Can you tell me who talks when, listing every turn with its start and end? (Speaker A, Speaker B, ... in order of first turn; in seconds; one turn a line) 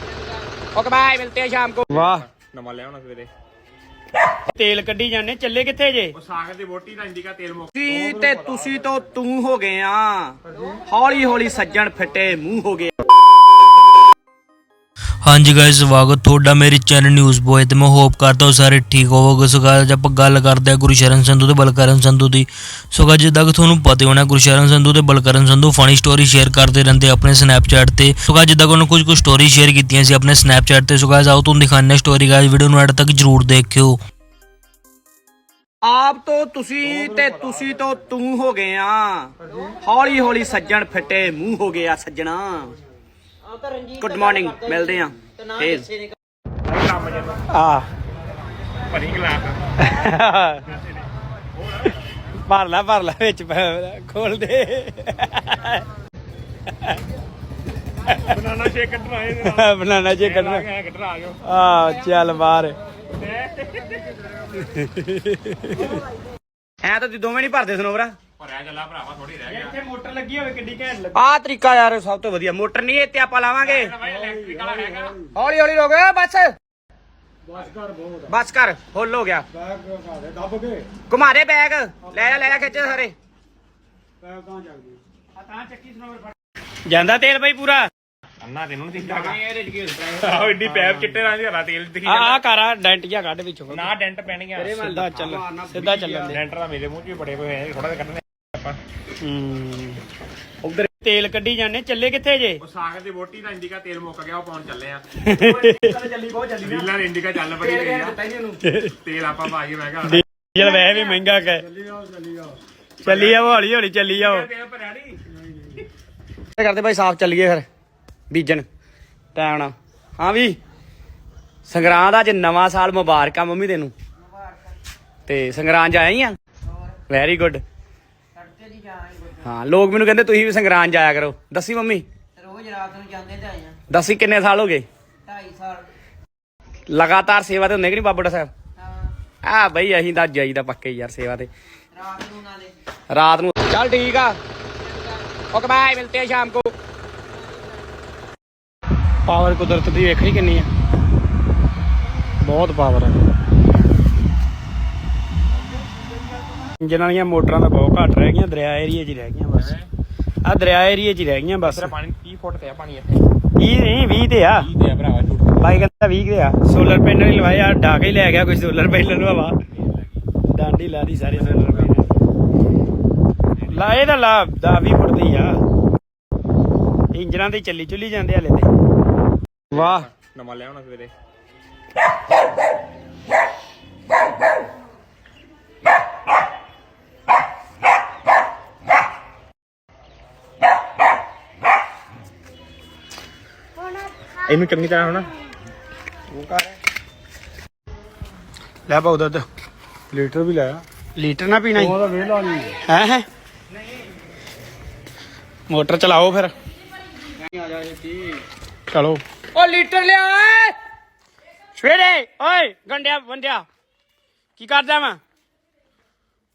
Speaker A: 0.7-2.0
Speaker B: 1.9-2.2
Speaker C: 2.1-3.3
Speaker B: 4.5-6.1
Speaker C: 6.1-8.1
Speaker A: 7.7-12.9
Speaker D: 15.2-34.0
Speaker A: 35.8-42.7
Speaker A: 43.9-46.0
Speaker C: 46.7-47.4
Speaker B: 47.5-47.9
Speaker C: 48.9-49.6
Speaker B: 49.8-50.6
Speaker B: 52.5-55.8
Speaker C: 58.2-61.4
Speaker B: 59.5-60.6
Speaker B: 61.4-62.8
Speaker C: 63.2-64.0
Speaker B: 64.6-65.9
Speaker A: 66.8-68.1
Speaker C: 68.4-69.7
Speaker B: 69.5-71.2
Speaker A: 71.1-74.0
Speaker C: 73.6-75.2
Speaker A: 75.3-76.5
Speaker A: 78.2-79.5
Speaker E: 80.0-80.8
Speaker A: 81.1-83.1
Speaker B: 85.7-85.9
Speaker B: 86.9-87.9
Speaker C: 88.4-89.4
Speaker A: 89.0-90.5
Speaker C: 90.2-92.4
Speaker B: 92.0-93.9
Speaker C: 93.7-94.8
Speaker A: 94.5-95.9
Speaker B: 94.8-96.4
Speaker C: 95.7-98.8
Speaker B: 99.2-100.0
Speaker B: 100.8-102.6
Speaker C: 102.6-105.3
Speaker B: 105.2-106.0
Speaker A: 105.4-106.8
Speaker C: 106.6-108.2
Speaker A: 107.6-108.6
Speaker C: 109.0-110.2
Speaker B: 110.0-111.8
Speaker C: 113.0-115.2
Speaker B: 113.0-114.5
Speaker A: 116.5-117.6
Speaker A: 118.3-118.7
Speaker A: 119.3-120.6
Speaker A: 121.7-123.9
Speaker A: 125.2-126.3
Speaker A: 127.1-127.6
Speaker E: 128.6-129.2
Speaker A: 129.3-132.0
Speaker E: 132.5-133.7
Speaker A: 133.8-134.8
Speaker A: 136.9-138.5
Speaker A: 139.4-141.5
Speaker A: 143.1-144.4
Speaker A: 145.5-146.7
Speaker B: 149.3-150.7
Speaker B: 152.4-153.2
Speaker B: 156.8-159.7
Speaker C: 159.5-159.9
Speaker B: 160.4-161.9
Speaker C: 161.6-163.2
Speaker B: 163.6-164.7
Speaker C: 164.6-165.8
Speaker B: 165.6-169.5
Speaker B: 170.5-172.1
Speaker C: 171.5-171.9
Speaker B: 173.7-175.6
Speaker B: 177.1-178.7
Speaker C: 179.7-181.1
Speaker C: 194.4-195.3
Speaker B: 198.9-199.5
Speaker B: 200.1-203.2
Speaker B: 205.7-206.5
Speaker B: 208.9-209.2
Speaker A: 209.5-210.7
Speaker B: 211.8-213.6
Speaker B: 214.6-215.2